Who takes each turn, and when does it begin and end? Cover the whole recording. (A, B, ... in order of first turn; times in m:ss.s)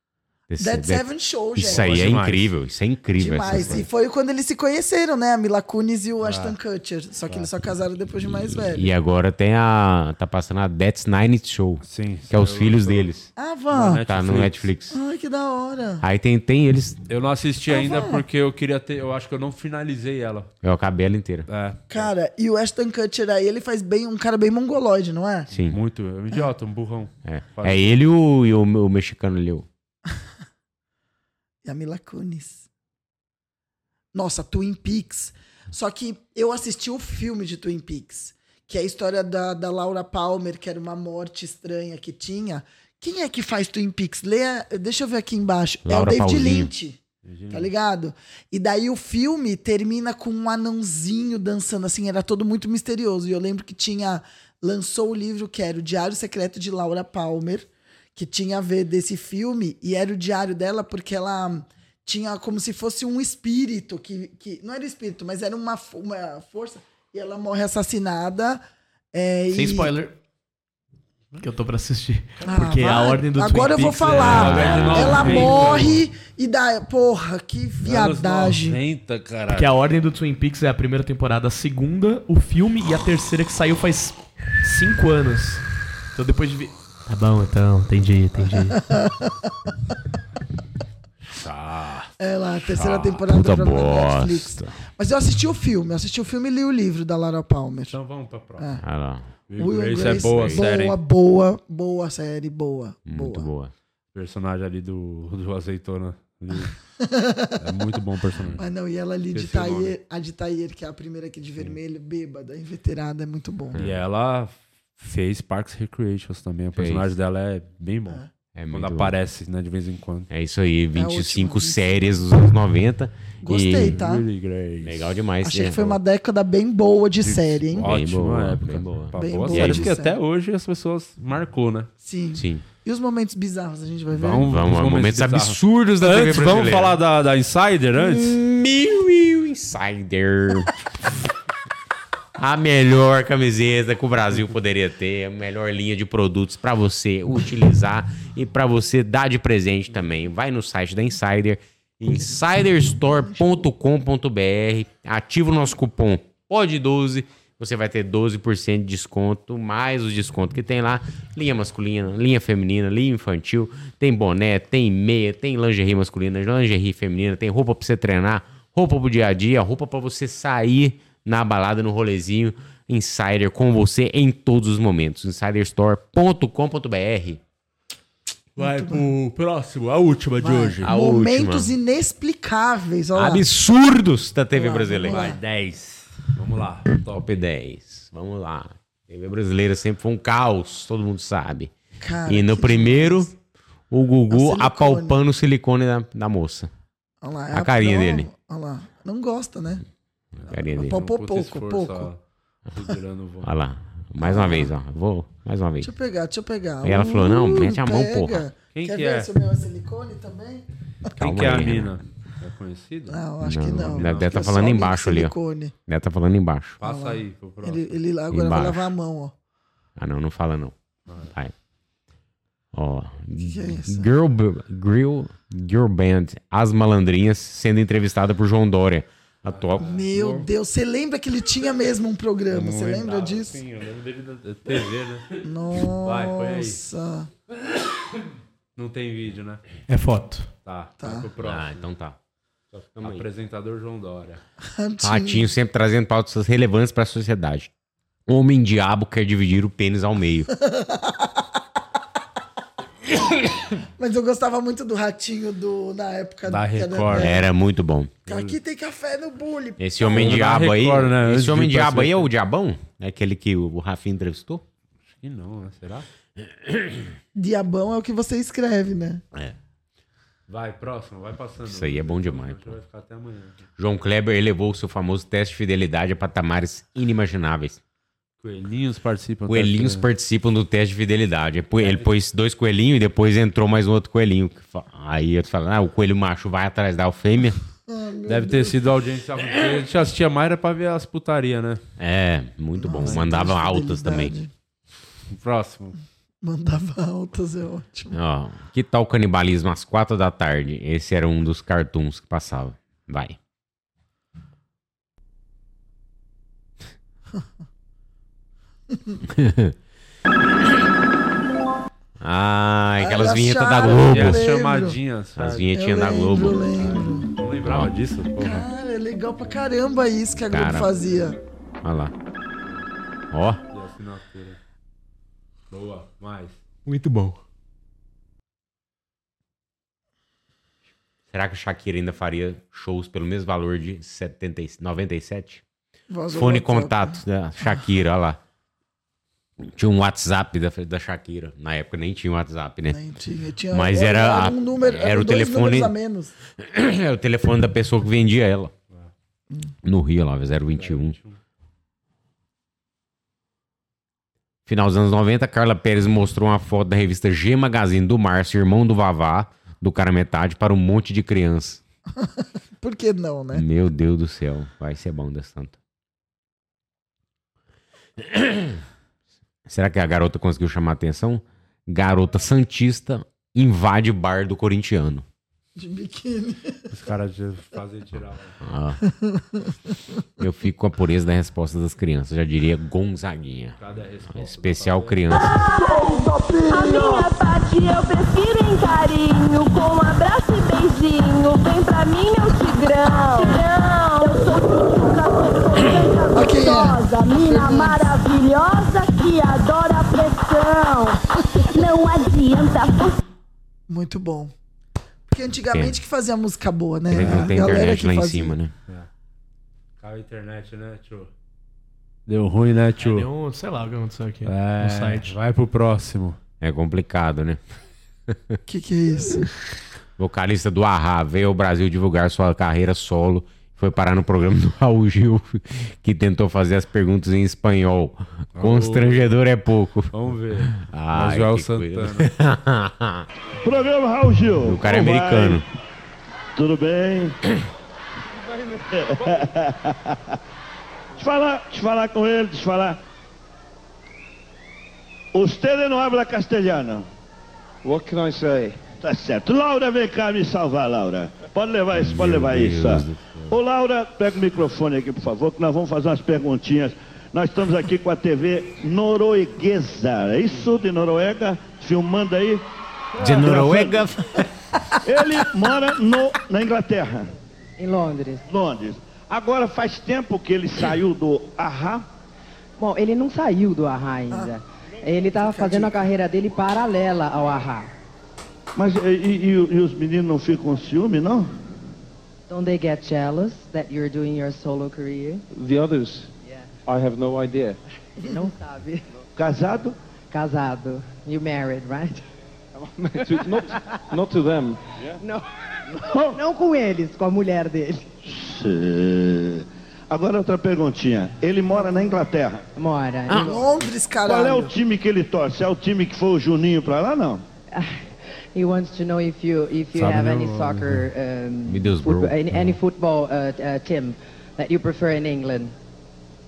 0:00.5-0:03.9 A
0:00.6-0:02.1 B
0:01.6-0:02.5 C
0:03.2-0:08.9 B
0:03.5-0:03.8 C
0:06.2-0:06.6 C
0:08.6-0:13.3 A
0:11.8-0:13.1 C
0:13.4-0:14.0 B
0:13.7-0:14.7 C
0:14.1-0:15.0 A
0:14.9-0:16.0 B
0:16.0-0:17.0 A
0:17.1-0:20.5 C
0:17.7-0:18.2 B
0:20.6-0:21.5 A
0:21.5-0:22.1 C
0:21.9-0:25.5 B
0:25.5-0:25.8 A
0:25.7-0:28.0 C
0:27.2-0:29.7 A
0:31.6-0:32.7 B
0:34.1-0:47.0 B
0:45.8-0:46.7 A
0:47.2-0:47.7 C
0:47.5-1:09.9 B
1:09.5-1:10.2 D
1:11.4-1:15.6 D
1:12.4-1:18.8 B
1:14.2-1:16.0 C
1:17.8-1:19.7 C
1:19.5-1:28.9 D
1:28.9-1:29.3 B
1:31.3-1:32.1 C
1:32.2-1:38.0 B
1:33.2-1:34.8 A
1:37.9-1:38.8 C
1:38.8-1:39.3 A
1:39.5-1:41.0 C
1:39.6-1:43.5 B
1:40.1-1:40.6 A
1:43.1-1:43.7 A
1:44.1-1:46.8 C
1:47.0-1:47.6 B
1:47.6-1:48.6 C
1:48.6-1:53.8 B
1:49.3-1:50.0 C
1:53.8-2:00.3 C
1:56.8-1:57.1 A
1:58.6-1:59.2 A
2:00.3-2:04.0 A
2:01.0-2:02.3 B
2:03.4-2:04.2 B
2:03.8-2:05.2 C
2:04.8-2:06.0 A
2:05.4-2:07.9 B
2:07.2-2:11.9 C
2:07.8-2:09.9 A
2:09.2-2:10.2 B
2:12.0-2:14.5 B
2:12.4-2:12.6 A
2:14.1-2:18.4 C
2:14.2-2:17.0 A
2:18.0-2:20.7 A
2:22.4-2:57.4 A
2:58.6-2:59.0 B
2:58.6-3:00.9 C
3:00.4-3:03.5 B
3:00.8-3:01.8 A
3:03.2-3:05.4 A
3:04.5-3:05.4 B
3:05.0-3:07.4 C
3:07.1-3:11.7 A
3:12.0-3:13.3 B
3:12.3-3:13.3 A
3:13.9-3:16.7 A
3:14.3-3:15.2 B
3:17.2-3:19.8 B
3:17.5-3:18.3 A
3:20.4-3:21.0 A
3:20.5-3:22.1 B
3:20.9-3:23.5 C
3:23.4-3:25.9 A
3:24.2-3:24.7 B
3:25.8-3:30.6 B
3:26.8-3:28.4 A
3:28.7-3:29.3 C
3:31.2-3:32.0 A
3:31.2-3:33.2 C
3:33.1-3:35.7 B
3:33.4-3:35.4 A
3:33.7-3:34.5 C
3:35.9-3:36.8 A
3:36.8-3:38.0 C
3:36.8-3:39.3 B
3:38.3-3:38.9 A
3:40.0-3:40.8 A
3:41.3-3:41.5 A
3:42.7-3:49.9 A
3:43.4-3:44.1 B
3:49.5-3:50.5 C
3:49.8-3:53.6 B
3:52.5-3:56.8 C
3:55.4-3:57.3 B
3:58.8-3:59.6 C
3:59.9-4:00.5 D
4:00.6-4:01.8 C
4:01.0-4:01.3 B
4:01.4-4:02.2 A
4:02.7-4:04.4 C
4:03.0-4:03.2 A
4:04.7-4:05.5 B
4:05.0-4:07.7 A
4:08.3-4:10.5 A
4:10.6-4:11.3 B
4:14.0-4:17.4 B
4:16.5-4:17.4 C
4:17.1-4:18.2 A
4:18.3-4:18.6 C
4:18.3-4:20.4 B
4:19.8-4:24.6 A
4:20.1-4:22.3 C
4:25.1-4:26.1 C
4:26.5-4:27.1 A
4:27.4-4:29.2 B
4:30.5-4:33.6 C
4:31.7-4:32.8 A
4:33.8-4:37.8 A
4:38.4-4:40.1 C
4:39.5-4:47.6 A
4:41.8-4:42.1 C
4:47.9-4:48.9 B
4:48.3-4:51.8 C
4:52.0-4:54.4 A
4:52.8-4:54.5 B
4:55.3-4:56.0 C
4:56.4-4:58.2 B
4:58.1-5:03.4 A
5:08.9-5:09.2 B
5:09.3-5:09.8 A
5:12.2-5:14.4 A
5:13.0-5:15.0 B
5:14.0-5:15.7 C
5:15.4-5:16.8 A
5:15.7-5:17.3 B
5:16.9-5:18.7 C
5:17.6-5:17.9 A
5:18.4-5:21.4 B
5:20.4-5:21.0 A
5:21.8-5:22.1 A
5:23.3-5:23.6 A
5:23.7-5:24.6 C
5:25.7-5:26.6 C
5:26.9-5:27.4 D
5:31.3-5:35.6 A
5:36.1-5:37.8 B
5:36.3-5:38.4 A
5:39.6-5:43.0 A
5:42.9-5:46.3 B
5:43.7-5:45.9 A
5:46.6-5:48.7 A
5:49.8-5:51.2 A
5:50.7-5:51.4 C
5:54.7-6:01.8 A
6:02.2-6:03.6 B
6:03.5-6:05.8 A
6:08.2-6:08.8 A
6:09.7-6:15.2 A
6:15.8-6:16.8 B
6:16.9-6:18.6 C
6:18.6-6:19.0 A
6:19.0-6:19.7 B
6:20.4-6:23.8 A
6:23.8-6:25.2 C
6:24.3-6:25.6 A
6:25.3-6:43.2 E
6:36.3-6:38.0 B
6:43.9-6:44.5 B
6:45.3-6:48.6 B
6:45.7-6:46.0 A
6:47.1-6:48.7 A
6:47.2-6:47.6 C
6:50.0-6:51.3 C
6:52.3-6:53.3 C
6:53.0-6:55.4 D
6:54.4-6:56.4 C
6:56.6-6:57.6 A
6:58.3-6:58.6 A
6:58.7-6:59.5 B
7:00.2-7:10.1 A
7:08.6-7:09.3 C
7:10.1-7:12.3 C
7:10.7-7:13.3 A
7:13.6-7:15.6 F
7:14.6-7:15.6 A
7:16.6-7:17.4 F
7:18.5-7:18.8 G
7:18.9-7:20.4 F
7:21.2-7:23.0 F
7:25.3-7:27.1 F
7:27.8-7:28.8 G
7:29.0-7:42.6 F
7:31.9-7:33.6 A
7:43.2-7:44.5 A
7:43.2-7:44.0 F
7:45.0-7:47.3 F
7:47.8-7:48.4 H
7:48.5-7:52.0 F
7:52.8-7:57.9 H
7:55.4-7:56.0 B
7:58.8-8:01.5 F
8:02.5-8:05.4 H
8:05.5-8:06.3 G
8:06.4-8:06.7 H
8:06.8-8:07.8 G
8:08.2-8:09.1 H
8:09.4-8:10.0 F
8:10.3-8:12.2 H
8:12.8-8:14.8 G
8:16.0-8:16.4 F
8:16.3-8:18.1 H
8:18.2-8:22.6 F
8:22.8-8:23.7 H
8:23.4-8:24.7 B
8:24.2-8:27.4 F
8:27.7-8:35.8 H
8:29.9-8:31.1 C
8:31.7-8:32.4 A